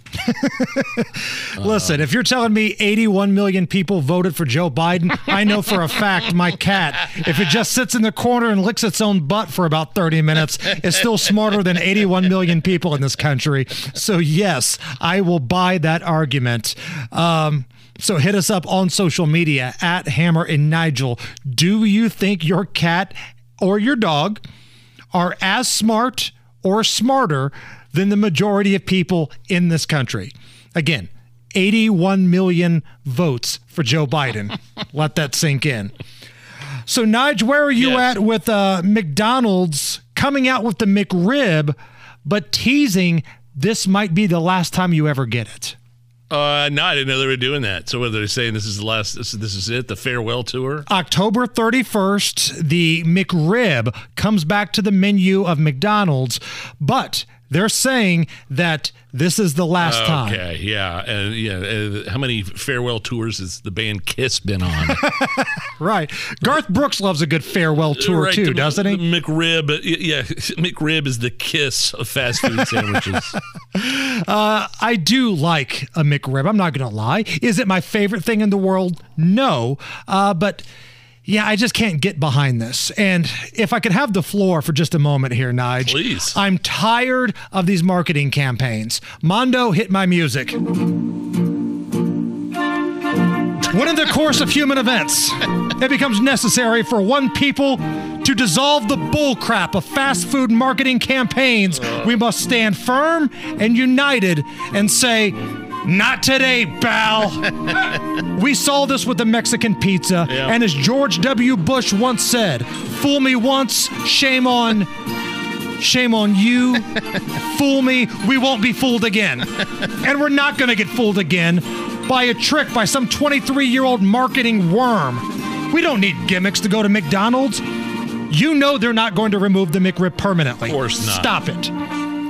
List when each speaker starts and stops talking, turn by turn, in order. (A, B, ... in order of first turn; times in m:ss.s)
0:00.3-0:24.4 A
0:01.6-0:02.0 B
0:25.1-0:35.9 A
0:36.9-0:45.8 A
0:37.8-0:38.1 B
0:46.3-0:50.8 B
0:50.9-1:00.4 A
0:59.8-1:05.0 B
1:04.9-1:09.0 A
1:07.9-1:13.3 B
1:13.7-1:20.6 A
1:21.2-1:30.6 A
1:25.8-1:26.4 B
1:33.7-1:47.4 A
1:41.8-1:42.1 B
1:48.3-1:54.9 A
1:50.3-1:50.5 B
1:55.8-1:56.8 A
1:57.4-1:59.5 A
2:00.0-2:07.6 A
2:08.3-2:11.7 A
2:10.6-2:11.3 B